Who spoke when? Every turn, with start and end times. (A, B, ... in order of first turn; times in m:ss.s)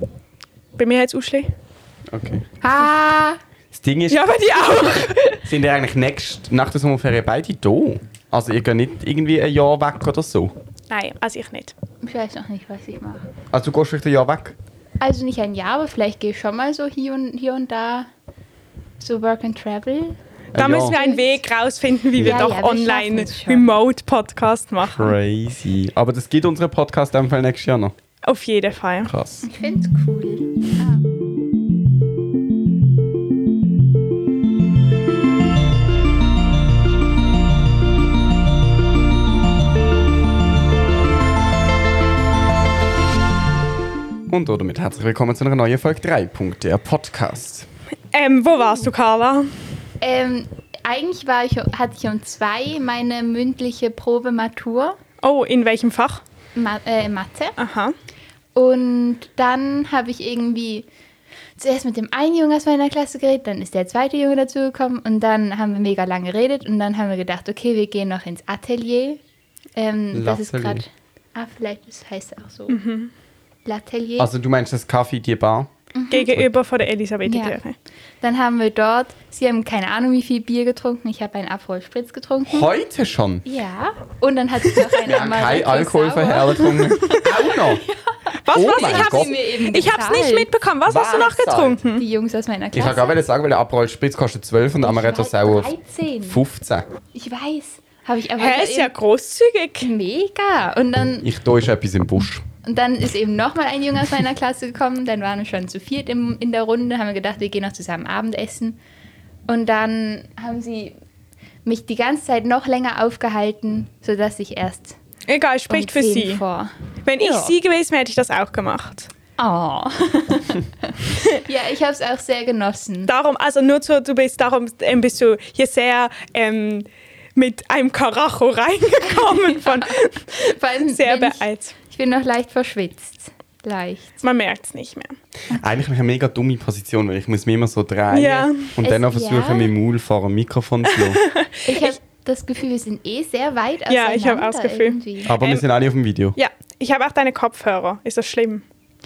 0:00.8-0:01.5 A
0:02.1-0:02.5 B
0:02.6-0:03.4 C
0:03.7-0:10.5 B
0:04.1-0:05.4 A
0:10.9-0:11.7 A
0:12.0-0:13.3 C
0:13.5-0:14.6 B
0:15.0-0:18.1 C
0:19.0-0:20.2 C
0:20.5-0:21.0 B
0:20.6-0:25.1 A
0:20.9-0:21.4 C
0:22.2-0:22.5 B
0:22.2-0:23.7 C
0:24.8-0:28.0 B
0:28.2-0:29.1 A
0:29.1-0:29.5 B
0:29.4-0:31.0 C
0:44.3-0:47.7 B
0:48.1-0:49.6 A
0:50.0-0:55.0 C
0:55.2-0:56.2 A
0:56.6-0:57.6 C
0:57.6-0:58.0 A
0:58.6-1:00.9 C
1:01.6-1:09.2 C
1:09.8-1:12.8 C
1:10.1-1:10.8 B
1:12.7-1:13.1 A
1:13.6-1:14.3 C
1:14.2-1:15.7 B
1:15.9-1:16.4 C
1:16.1-1:17.8 A
1:17.3-1:17.6 C
1:18.2-1:22.7 C
1:22.5-1:23.4 B
1:23.5-1:30.5 C
1:25.0-1:27.8 B
1:26.9-1:27.2 A
1:28.4-1:32.0 A
1:28.5-1:29.4 B
1:30.9-1:31.8 B
1:31.9-1:33.2 C
1:32.7-1:35.7 B
1:34.8-1:36.4 C
1:36.2-1:36.8 B
1:37.1-1:38.9 C
1:38.4-1:39.9 A
1:39.8-1:41.3 C
1:41.2-1:42.4 B
1:42.6-1:48.8 C
1:49.5-1:51.0 C
1:51.6-1:55.0 C
1:55.3-1:56.4 A
1:55.7-1:57.6 C
1:57.0-1:59.1 A
1:59.4-2:03.1 C
2:01.1-2:01.4 A
2:03.1-2:11.8 A
2:09.1-2:14.2 C
2:14.2-2:15.2 A
2:15.5-2:21.2 B
2:18.1-2:18.7 A
2:18.8-2:19.7 C
2:20.9-2:22.0 A
2:21.7-2:25.4 C
2:23.9-2:25.6 A
2:25.2-2:26.4 B
2:26.4-2:28.6 A